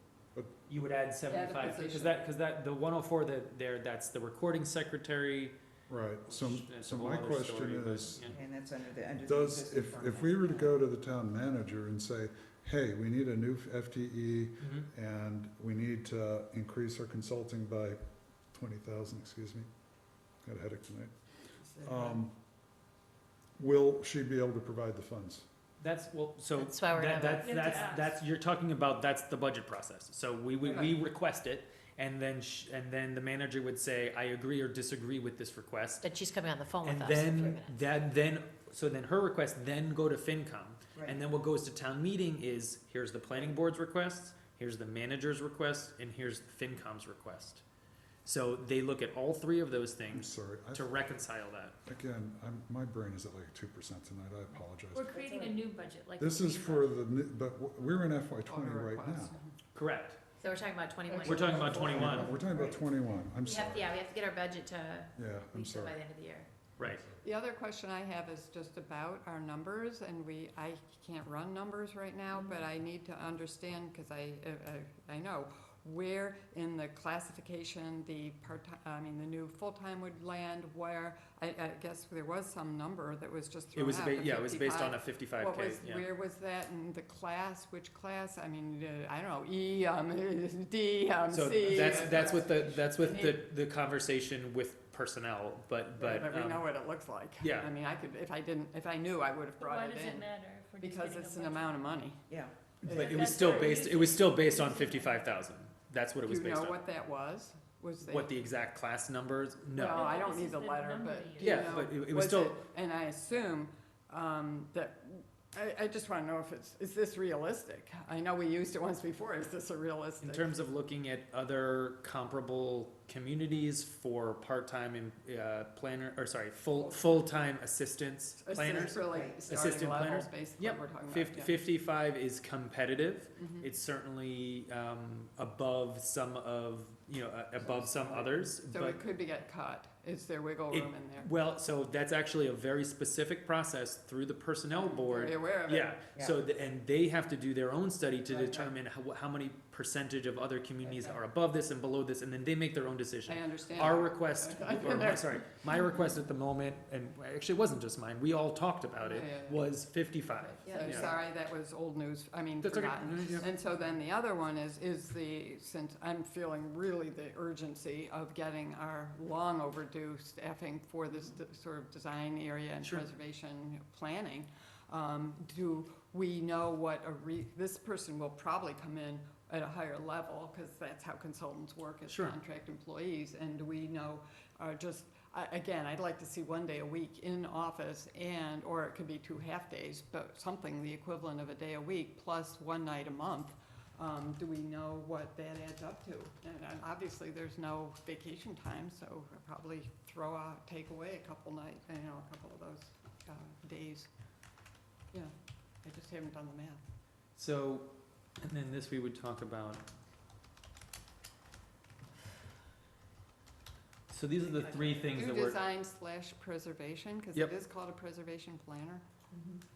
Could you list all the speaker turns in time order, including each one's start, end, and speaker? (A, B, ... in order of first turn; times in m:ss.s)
0:00.7-0:05.6 A
0:01.3-0:02.2 B
0:05.9-0:08.4 C
0:06.2-0:08.4 A
0:08.3-0:10.8 D
0:09.2-0:18.0 C
0:14.6-0:14.9 A
0:18.5-0:19.7 C
0:20.4-0:21.1 C
0:21.8-0:22.4 C
0:23.6-0:25.4 C
0:25.8-0:36.1 A
0:26.6-0:27.7 E
0:27.4-0:28.1 F
0:36.0-0:37.9 E
0:36.8-0:47.6 A
0:48.2-0:51.8 A
0:50.1-0:51.0 C
0:51.8-0:55.2 C
0:54.9-0:57.0 F
0:55.2-0:55.5 D
0:56.2-0:59.3 C
0:58.4-0:59.5 B
0:59.8-1:00.2 A
1:00.4-1:02.4 E
1:01.1-1:01.9 B
1:01.2-1:02.3 A
1:01.8-1:04.0 C
1:02.4-1:02.8 D
1:03.4-1:06.5 E
1:05.2-1:06.0 C
1:06.8-1:07.0 A
1:06.8-1:07.2 C
1:07.2-1:33.4 B
1:23.7-1:26.1 A
1:31.3-1:36.6 A
1:31.9-1:32.3 D
1:36.0-1:42.3 B
1:37.4-1:37.7 A
1:39.6-1:42.1 F
1:42.3-1:42.5 D
1:42.8-1:43.6 B
1:42.9-1:46.8 A
1:42.9-1:45.3 F
1:46.2-1:48.3 B
1:48.0-1:50.2 A
1:49.7-2:00.5 B
1:49.9-1:51.8 F
1:51.4-1:52.6 A
2:00.2-2:19.0 A
2:08.4-2:11.6 B
2:08.8-2:09.5 D
2:13.4-2:13.7 B
2:17.8-2:18.2 D
2:18.7-2:21.3 B
2:20.7-2:41.1 A
2:24.7-2:26.0 B
2:28.3-2:28.6 D
2:30.8-2:31.1 D
2:33.3-2:35.4 B
2:39.0-2:39.6 B
2:40.6-3:24.1 B
2:40.6-2:41.1 E
2:42.6-2:43.5 A
3:02.1-3:02.4 A
3:25.1-3:26.8 B
3:27.4-3:29.8 A
3:34.1-3:35.6 A
3:35.0-3:39.0 B